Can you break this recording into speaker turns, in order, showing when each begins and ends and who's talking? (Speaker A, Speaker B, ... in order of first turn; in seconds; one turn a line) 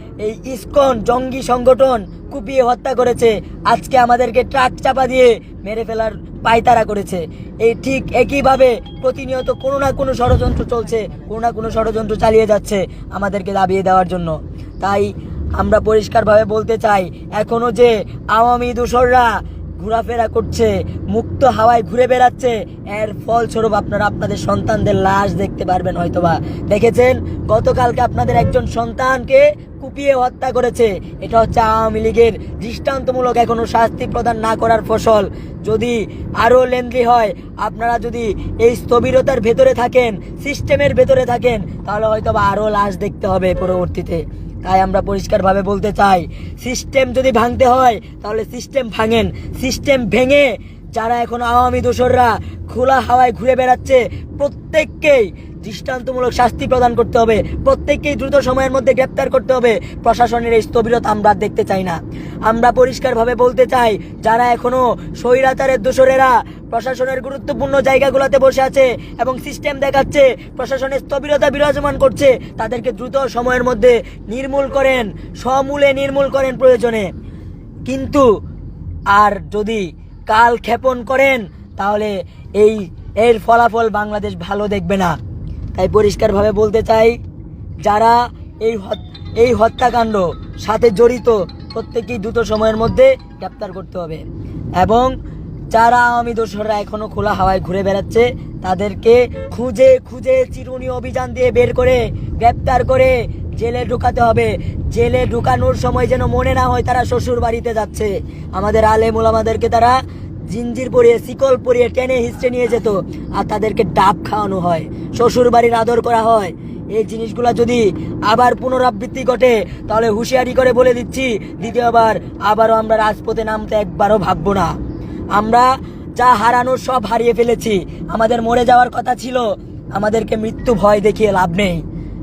Speaker A: 0.2-77.1
Speaker A: 77.9-78.2
Speaker A: 79.2-85.2
Speaker A: 85.8-87.2
Speaker A: 87.8-94.2
Speaker A: 94.8-95.1
Speaker A: 95.7-110.0
Speaker A: 110.5-124.7
Speaker A: 125.4-125.7
Speaker A: 126.2-129.4
Speaker A: 130.0-131.8